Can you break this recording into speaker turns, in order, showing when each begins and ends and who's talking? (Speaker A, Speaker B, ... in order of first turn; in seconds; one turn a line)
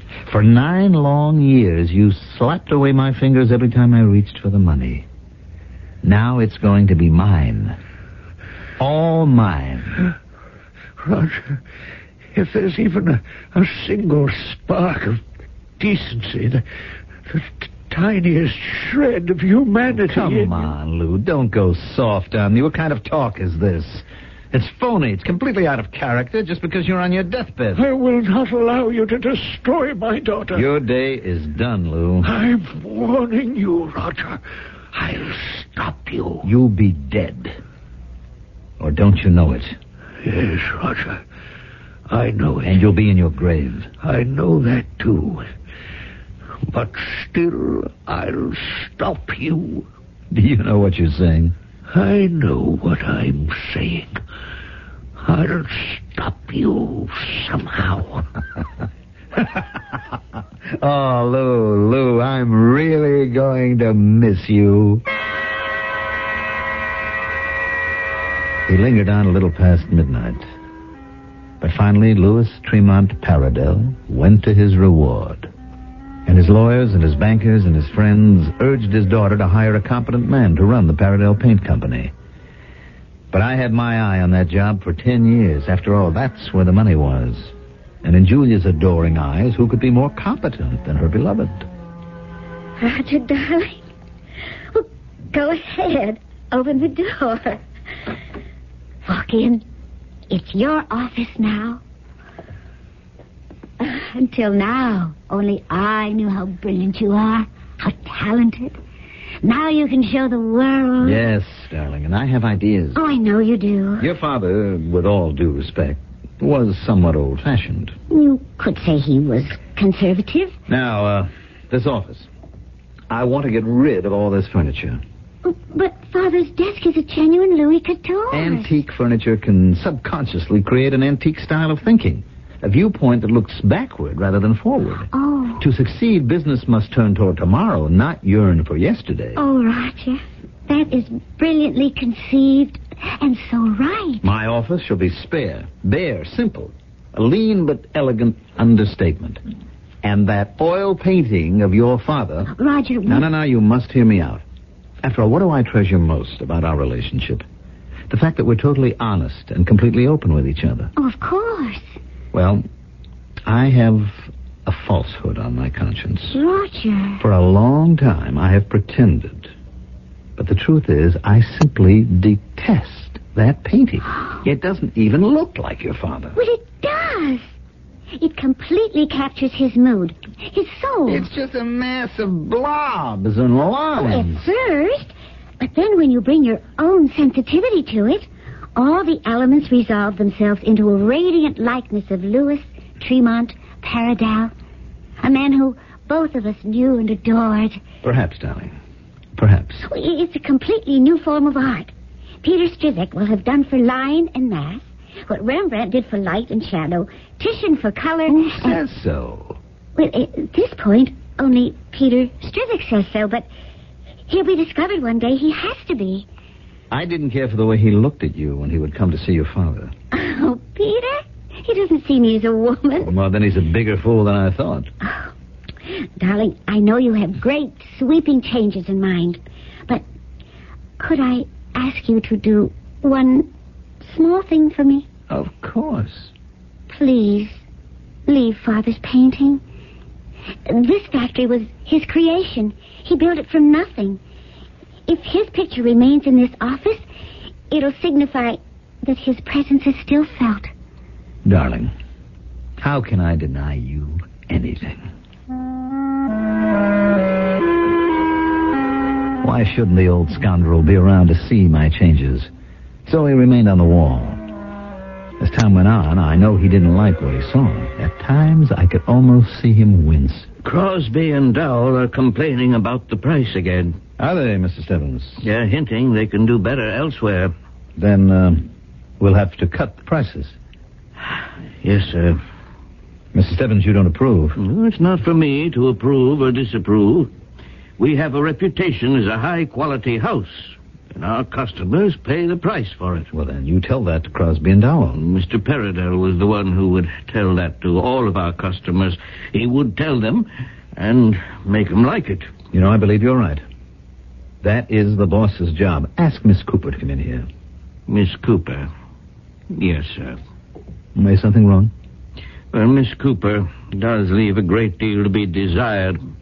Speaker A: 0.2-5.1
Speaker A: 6.0-7.8
Speaker A: 8.8-10.0
Speaker B: 11.0-11.6
Speaker B: 12.3-15.2
Speaker B: 15.8-16.6
Speaker B: 17.3-20.5
Speaker A: 19.9-27.8
Speaker B: 27.7-30.7
Speaker A: 30.5-32.3
Speaker B: 32.2-34.4
Speaker B: 34.9-36.5
Speaker A: 36.4-37.6
Speaker A: 38.8-39.8
Speaker B: 40.2-41.2
Speaker B: 42.1-42.8
Speaker A: 42.6-43.9
Speaker B: 44.0-45.5
Speaker B: 46.7-49.9
Speaker A: 50.3-51.5
Speaker B: 51.9-54.2
Speaker B: 55.2-58.3
Speaker A: 59.4-60.0
Speaker A: 60.7-65.0
Speaker A: 68.7-70.5
Speaker A: 71.6-75.5
Speaker A: 76.3-82.1
Speaker A: 83.3-91.7
Speaker C: 92.8-93.8
Speaker C: 94.7-97.6
Speaker C: 99.0-99.6
Speaker C: 100.3-101.8
Speaker C: 103.8-108.8
Speaker C: 109.4-111.2
Speaker A: 111.0-113.0
Speaker C: 113.0-114.1
Speaker A: 114.0-118.0
Speaker C: 118.1-120.5
Speaker A: 120.7-122.3
Speaker A: 123.1-125.0
Speaker C: 125.4-128.8
Speaker A: 128.3-139.4
Speaker C: 135.1-135.6
Speaker C: 139.4-144.3
Speaker A: 144.2-149.4
Speaker A: 150.0-152.5
Speaker C: 152.5-153.3
Speaker A: 153.1-154.4
Speaker A: 155.0-157.4
Speaker A: 158.1-160.9
Speaker C: 161.0-161.9
Speaker A: 162.3-162.6
Speaker A: 163.5-166.4
Speaker C: 166.3-167.2
Speaker A: 167.2-169.5
Speaker A: 170.4-176.4
Speaker C: 176.3-177.5
Speaker C: 178.2-181.3
Speaker A: 181.1-184.5
Speaker C: 183.9-194.5
Speaker C: 195.2-197.8
Speaker A: 198.0-198.8
Speaker A: 199.4-199.8
Speaker C: 199.8-201.9
Speaker C: 202.4-208.8
Speaker A: 208.3-209.6
Speaker C: 210.0-213.5
Speaker C: 214.3-216.3
Speaker A: 216.9-219.9
Speaker C: 220.1-223.1
Speaker A: 223.0-224.9
Speaker C: 225.0-225.3
Speaker C: 225.9-230.0
Speaker C: 231.0-233.5
Speaker C: 234.0-235.1
Speaker A: 235.3-236.3
Speaker C: 236.9-237.6
Speaker C: 238.3-239.6
Speaker C: 240.7-244.2
Speaker C: 245.1-247.0
Speaker C: 247.7-250.7
Speaker A: 251.4-251.9
Speaker A: 252.8-255.1
Speaker A: 259.4-262.5
Speaker A: 263.1-264.4
Speaker A: 265.4-270.5
Speaker D: 270.6-274.0
Speaker A: 274.2-275.4
Speaker D: 275.4-277.5
Speaker A: 278.0-280.6
Speaker D: 281.8-282.4
Speaker A: 283.3-284.6
Speaker D: 284.6-287.3
Speaker D: 288.0-293.3
Speaker A: 293.3-295.2
Speaker D: 295.2-302.5
Speaker A: 302.7-303.6
Speaker A: 304.6-307.5
Speaker D: 308.1-308.9
Speaker D: 309.7-310.4
Speaker A: 311.1-311.9
Speaker D: 312.7-316.2